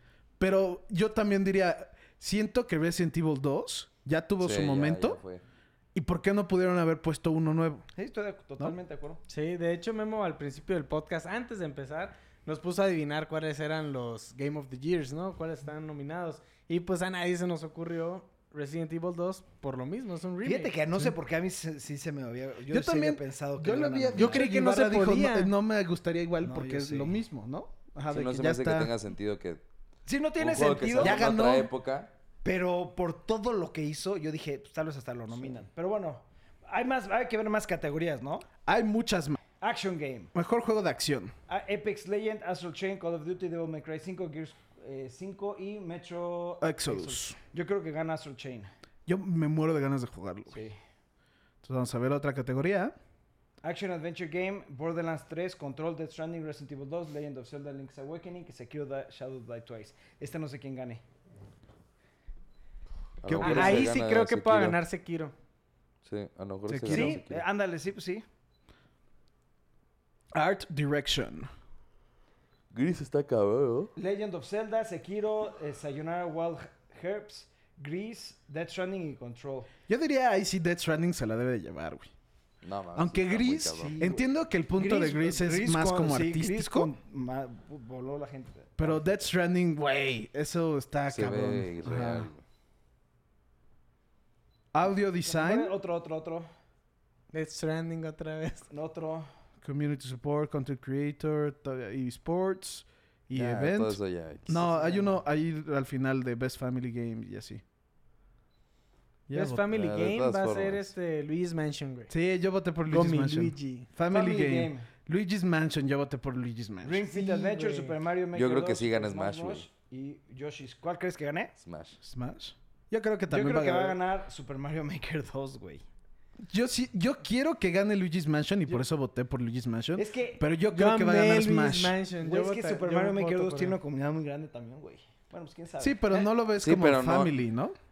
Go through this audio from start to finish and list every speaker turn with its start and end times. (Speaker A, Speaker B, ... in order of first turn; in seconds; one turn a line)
Speaker A: 0.4-5.2
Speaker B: 4.4-5.4
Speaker A: 5.9-7.9
Speaker C: 8.0-9.2
Speaker D: 9.3-20.7
Speaker C: 20.4-24.4
Speaker A: 22.7-28.9
Speaker D: 24.1-25.5
Speaker C: 26.4-27.2
Speaker B: 28.1-29.6
Speaker C: 30.1-31.2
Speaker B: 30.4-32.1
Speaker A: 30.9-31.7
Speaker C: 32.4-38.5
Speaker A: 38.6-39.4
Speaker C: 39.6-40.3
Speaker A: 40.3-41.3
Speaker C: 41.5-48.7
Speaker A: 46.6-47.4
Speaker A: 49.1-50.6
Speaker C: 50.5-50.8
Speaker A: 51.6-52.9
Speaker C: 53.6-61.0
Speaker B: 63.2-64.8
Speaker C: 63.3-63.9
Speaker D: 63.4-65.3
Speaker B: 66.0-67.4
Speaker A: 66.7-67.2
Speaker C: 66.8-68.2
Speaker A: 70.3-71.5
Speaker B: 72.7-73.9
Speaker C: 74.0-79.7
Speaker A: 79.9-82.1
Speaker B: 82.6-84.0
Speaker A: 82.9-86.9
Speaker C: 83.8-89.3
Speaker A: 88.8-92.3
Speaker B: 91.1-92.4
Speaker A: 94.7-95.7
Speaker C: 95.2-96.5
Speaker D: 97.3-98.7
Speaker C: 98.7-99.3
Speaker A: 99.6-107.6
Speaker B: 103.3-104.7
Speaker A: 109.3-109.6
Speaker D: 109.3-112.1
Speaker B: 109.7-110.9
Speaker A: 112.1-117.0
Speaker D: 112.9-113.9
Speaker C: 114.1-114.9
Speaker C: 116.8-121.5
Speaker D: 117.1-117.9
Speaker B: 118.3-119.7
Speaker B: 121.6-122.0
Speaker A: 122.0-124.0
Speaker C: 123.3-125.8
Speaker A: 126.5-132.0
Speaker C: 129.9-130.4
Speaker D: 130.7-133.8
Speaker C: 132.2-136.3
Speaker A: 135.8-137.8
Speaker B: 136.6-137.4